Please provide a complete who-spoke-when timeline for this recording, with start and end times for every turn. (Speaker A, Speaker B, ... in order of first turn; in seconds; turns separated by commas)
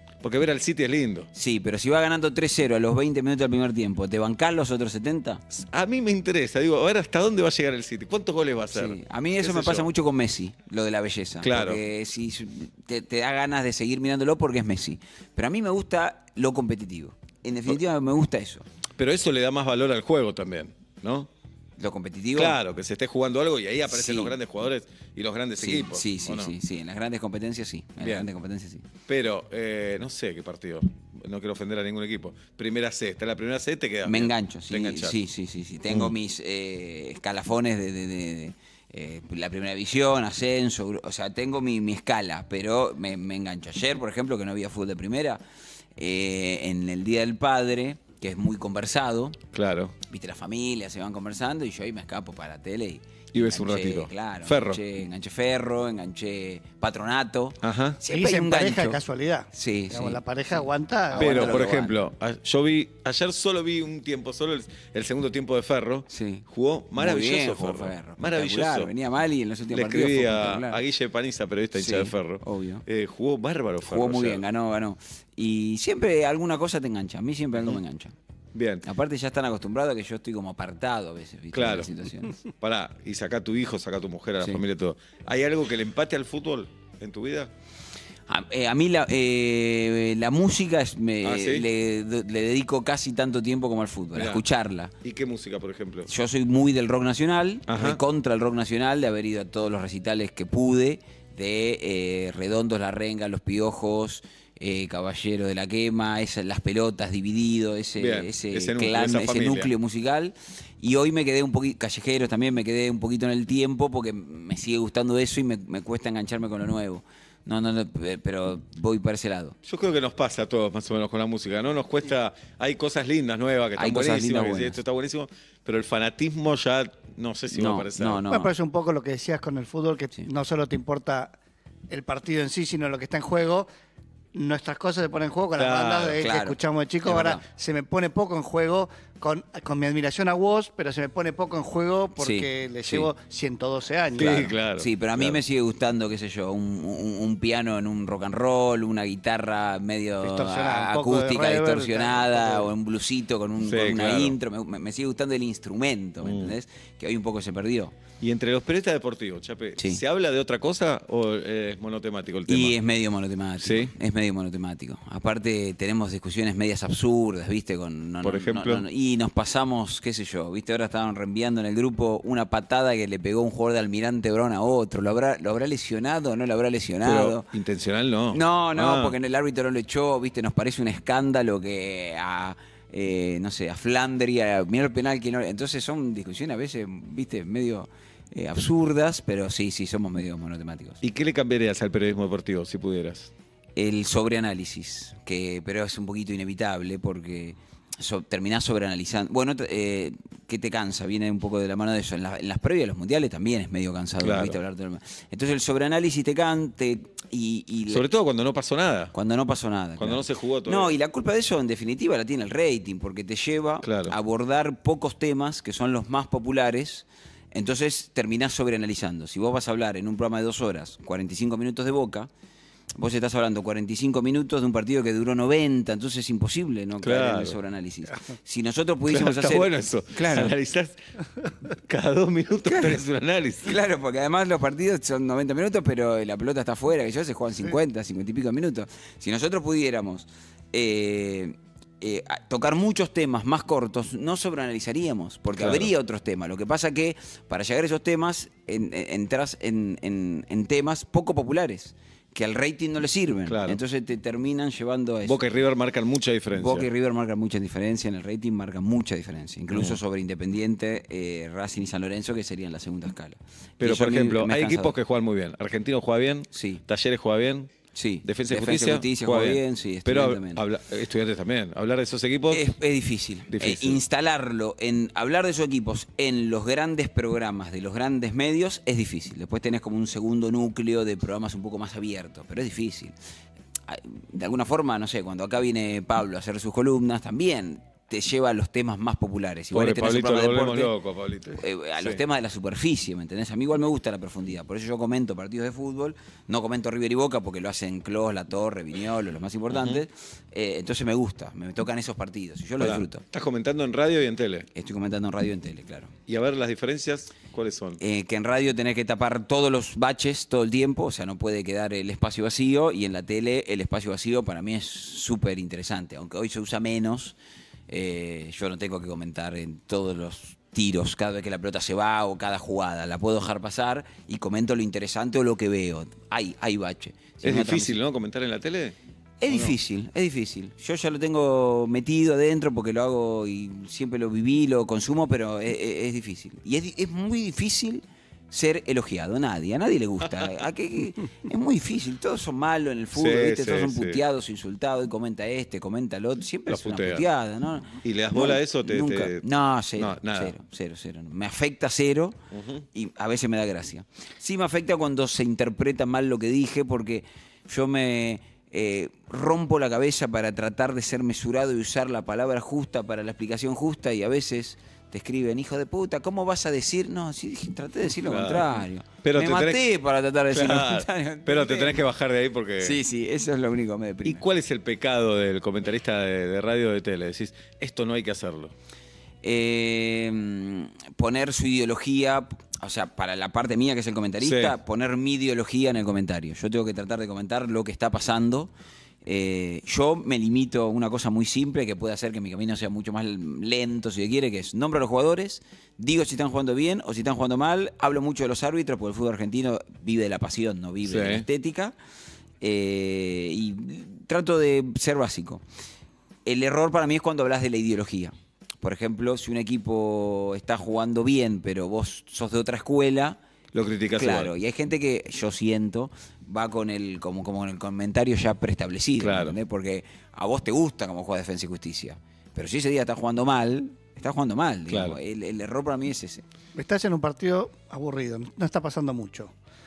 Speaker A: 0.2-1.3, Speaker B: 1.3-5.4, Speaker A: 5.5-9.9, Speaker B: 8.7-18.6, Speaker A: 11.4-11.8, Speaker A: 19.0-21.3, Speaker B: 21.8-22.6, Speaker A: 22.4-26.6, Speaker B: 23.9-24.4, Speaker B: 25.6-28.9, Speaker A: 28.0-28.3, Speaker A: 29.1-35.2, Speaker B: 34.0-45.4, Speaker A: 35.9-36.2, Speaker B: 46.0-49.4, Speaker A: 49.5-50.0, Speaker B: 50.1-59.0, Speaker A: 53.3-54.8, Speaker A: 57.6-58.0, Speaker C: 58.1-61.7, Speaker B: 59.5-62.0, Speaker A: 61.1-68.9, Speaker B: 66.1-70.8, Speaker A: 69.7-74.4, Speaker B: 71.8-72.8, Speaker B: 73.8-78.1, Speaker A: 78.5-78.8, Speaker B: 78.8-82.4, Speaker A: 81.5-81.9, Speaker A: 82.6-87.5, Speaker B: 88.3-94.9, Speaker A: 91.2-91.7, Speaker A: 94.2-94.4, Speaker A: 95.0-96.1, Speaker B: 96.1-119.6, Speaker A: 97.7-98.0, Speaker A: 108.0-109.7, Speaker A: 119.6-128.2, Speaker B: 123.8-124.8, Speaker B: 127.5-128.5, Speaker C: 128.3-131.3, Speaker C: 131.9-133.7, Speaker C: 134.3-144.6, Speaker A: 135.6-136.2, Speaker B: 136.2-137.4, Speaker B: 142.2-143.1, Speaker A: 144.2-145.4, Speaker B: 144.8-157.9, Speaker C: 150.2-152.7, Speaker A: 153.6-154.4, Speaker A: 156.2-156.6, Speaker A: 158.2-162.8, Speaker B: 162.5-177.5, Speaker A: 163.6-163.9, Speaker A: 168.2-168.9, Speaker A: 177.0-179.2, Speaker B: 178.3-191.0, Speaker A: 191.0-193.3, Speaker B: 193.8-208.1, Speaker A: 204.2-204.6, Speaker A: 207.9-209.1, Speaker B: 209.1-222.3, Speaker A: 210.0-211.0, Speaker A: 213.8-214.2, Speaker B: 223.0-230.6, Speaker A: 227.0-227.6, Speaker A: 229.1-231.0, Speaker A: 231.6-233.8, Speaker B: 232.7-233.0, Speaker B: 233.6-255.4, Speaker A: 245.6-245.9, Speaker A: 253.5-253.8, Speaker A: 255.2-256.9, Speaker B: 256.5-265.0, Speaker A: 259.7-260.0, Speaker A: 263.8-267.7, Speaker B: 266.5-266.8, Speaker B: 267.9-270.6, Speaker A: 268.2-272.8, Speaker B: 272.5-283.1, Speaker A: 273.5-274.0, Speaker B: 283.9-290.9, Speaker A: 289.7-292.2, Speaker B: 291.6-303.2, Speaker A: 299.7-300.0, Speaker A: 302.8-304.7, Speaker B: 304.7-306.1, Speaker A: 306.3-308.0, Speaker B: 308.0-317.4, Speaker B: 317.9-328.0, Speaker A: 327.4-329.0, Speaker B: 329.4-352.4, Speaker A: 329.5-329.8, Speaker A: 343.1-344.2, Speaker A: 346.7-347.3, Speaker A: 348.0-349.4, Speaker A: 350.0-350.6, Speaker A: 352.5-352.9, Speaker B: 352.9-372.0, Speaker A: 368.2-369.9, Speaker A: 370.5-373.0, Speaker B: 372.8-374.4, Speaker A: 374.2-378.7, Speaker B: 379.4-388.7, Speaker A: 384.4-384.8, Speaker B: 389.2-401.9, Speaker A: 401.0-401.4, Speaker B: 402.6-405.6, Speaker B: 406.4-413.4, Speaker A: 413.7-414.5, Speaker B: 414.1-426.4, Speaker A: 419.2-419.6, Speaker A: 424.9-425.2, Speaker C: 426.8-429.5